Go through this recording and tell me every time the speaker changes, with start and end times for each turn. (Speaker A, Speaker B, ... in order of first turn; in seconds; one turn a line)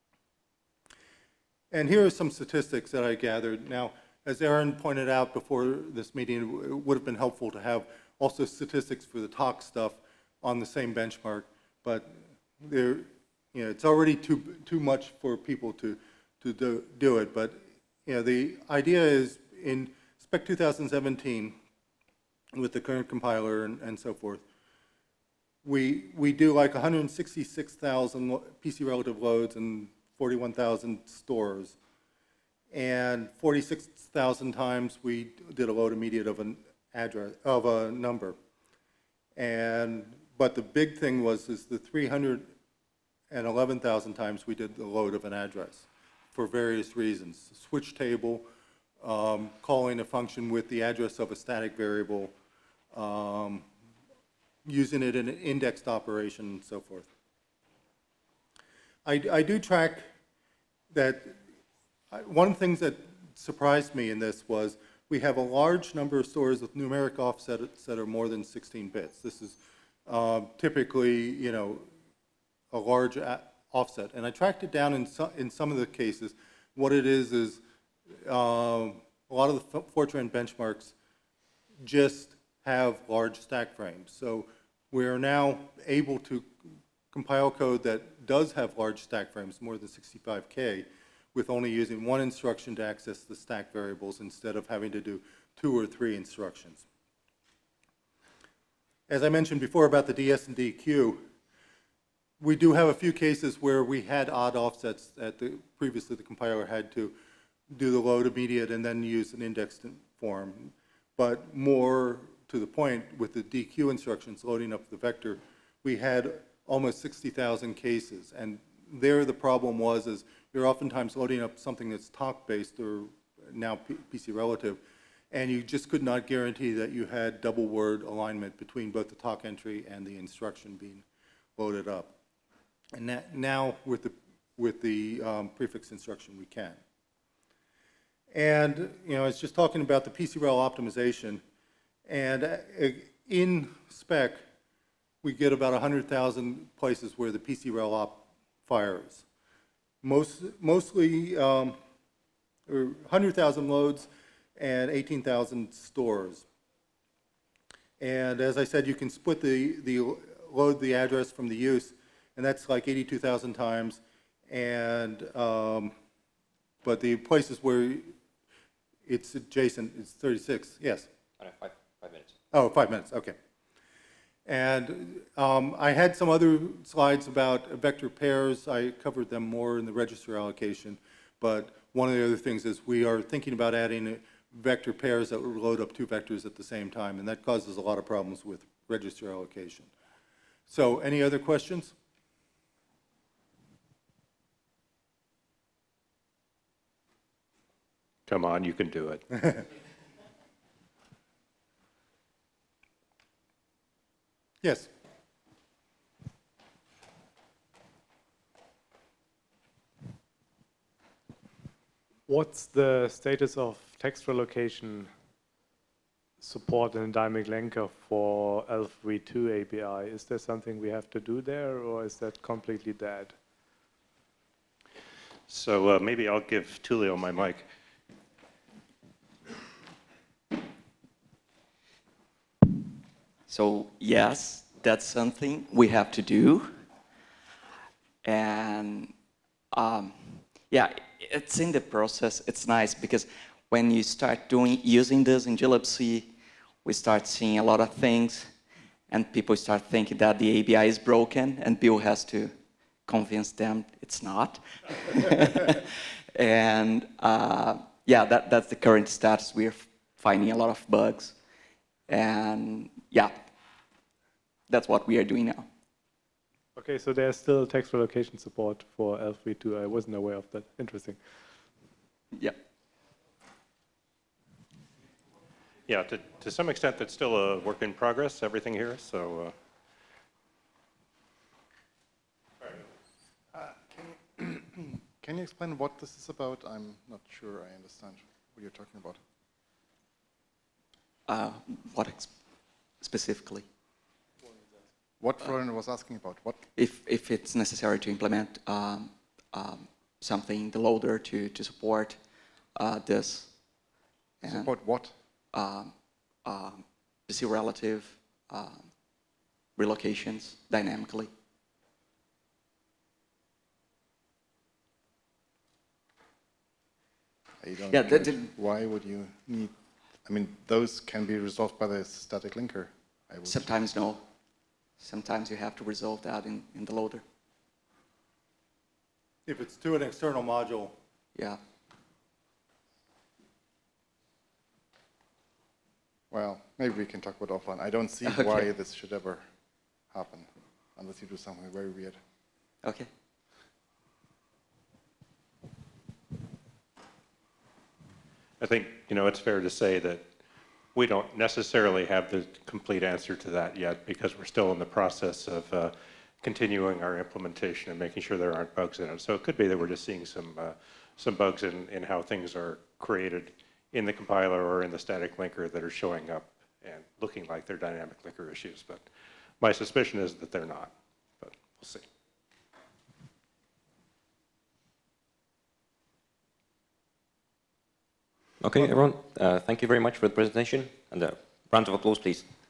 Speaker A: 1.7-21.6
Speaker A: 22.5-24.4
Speaker A: 25.6-31.8
Speaker A: 32.7-38.4
Speaker A: 39.4-42.5
Speaker A: 43.3-48.5
Speaker A: 49.0-52.3
Speaker A: 52.9-53.6
Speaker A: 54.6-57.1
Speaker A: 59.0-60.0
Speaker A: 60.9-61.4
Speaker A: 62.1-71.8
Speaker A: 72.7-77.6
Speaker A: 78.2-80.9
Speaker A: 81.8-86.5
Speaker A: 87.1-96.8
Speaker A: 99.1-101.2
Speaker A: 102.4-107.1
Speaker A: 107.7-131.0
Speaker A: 131.6-132.2
Speaker A: 132.9-136.8
Speaker A: 138.3-141.4
Speaker A: 142.1-144.4
Speaker A: 145.2-149.2
Speaker A: 150.0-151.8
Speaker A: 152.7-156.4
Speaker A: 158.0-165.9
Speaker A: 166.8-168.1
Speaker A: 169.1-171.1
Speaker B: 171.4-172.3
Speaker A: 172.5-173.4
Speaker A: 174.4-189.9
Speaker A: 190.7-191.9
Speaker C: 198.3-199.4
Speaker A: 204.6-204.9
Speaker D: 212.3-215.1
Speaker D: 216.4-223.4
Speaker C: 225.5-227.7
Speaker E: 233.5-236.7
Speaker E: 238.2-239.1
Speaker E: 239.7-246.3
Speaker E: 246.8-248.5
Speaker E: 249.1-252.5
Speaker E: 253.1-261.3
Speaker E: 262.1-263.3
Speaker E: 264.7-265.6
Speaker D: 266.8-271.2
Speaker C: 275.9-279.5
Speaker F: 283.5-289.2
Speaker E: 291.3-292.3
Speaker E: 293.0-293.6
Speaker F: 295.2-296.6
Speaker E: 296.8-302.2
Speaker E: 302.8-303.5
Speaker F: 304.4-305.1
Speaker E: 304.4-304.7
Speaker E: 305.5-305.9
Speaker E: 306.4-308.9
Speaker E: 309.8-311.3
Speaker F: 317.6-319.7
Speaker E: 317.9-318.5
Speaker F: 320.2-323.7
Speaker E: 323.5-324.2
Speaker E: 325.0-327.2
Speaker A: 329.4-330.9
Speaker F: 336.3-339.4
Speaker E: 338.2-338.7
Speaker F: 340.1-342.2
Speaker E: 342.8-343.1
Speaker C: 348.6-350.2
Speaker C: 350.9-369.1
Speaker C: 369.6-372.1
Speaker B: 378.6-382.4